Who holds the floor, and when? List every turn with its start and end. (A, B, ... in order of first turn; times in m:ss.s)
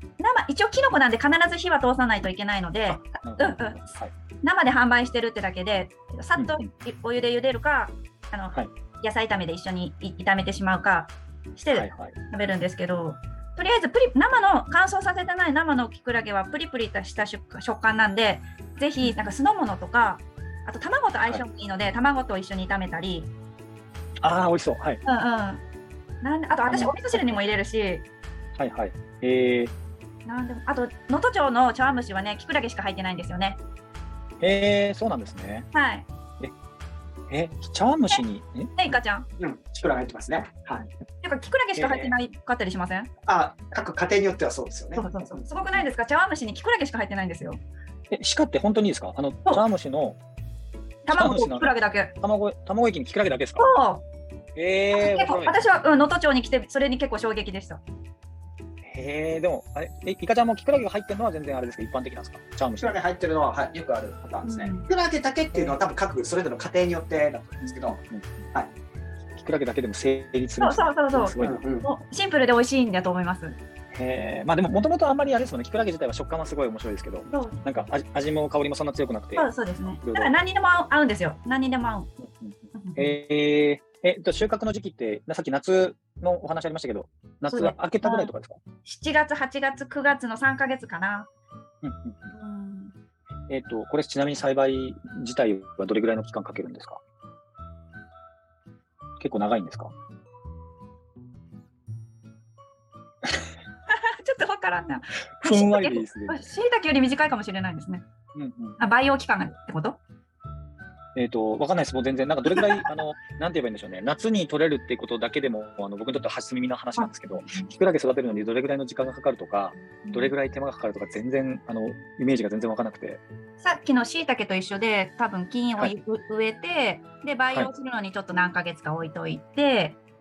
0:00.2-0:03.9 A
0:02.9-0:04.1 B
0:04.4-0:23.3 A
0:06.4-0:06.7 B
0:11.7-0:12.2 B
0:19.0-0:19.3 B
0:24.2-0:25.0 B
0:25.0-0:25.6 A
0:26.2-0:28.0 A
0:26.7-0:27.4 B
0:28.6-0:29.7 B
0:30.3-0:33.6 A
0:34.4-0:35.7 B
0:35.7-0:36.1 A
0:37.3-0:39.0 B
0:38.8-0:39.3 A
0:39.4-0:40.9 C
0:41.2-0:43.1 A
0:41.8-0:42.1 B
0:43.3-0:45.4 C
0:45.0-0:47.6 A
0:48.1-0:50.2 B
0:51.0-0:52.1 A
0:51.1-0:53.7 B
0:53.6-0:54.0 A
0:54.6-0:55.6 B
0:54.9-0:57.8 A
0:58.8-1:03.0 B
1:02.8-1:08.0 C
1:04.4-1:04.9 A
1:07.9-1:08.3 B
1:09.3-1:11.6 B
1:10.6-1:13.6 A
1:11.4-1:11.9 C
1:13.9-1:20.3 B
1:17.3-1:17.6 A
1:19.4-1:22.1 A
1:22.2-1:28.6 B
1:22.7-1:23.1 A
1:27.5-1:28.3 A
1:28.8-1:31.3 A
1:31.8-1:32.2 B
1:32.3-1:32.9 A
1:33.5-1:37.0 B
1:39.2-1:39.9 B
1:43.9-1:48.0 A
1:45.4-1:46.5 B
1:48.4-1:48.8 B
1:48.8-1:50.0 A
1:51.1-2:03.2 B
1:52.5-1:52.9 A
1:57.0-1:57.7 A
2:00.0-2:00.3 A
2:03.6-2:10.0 A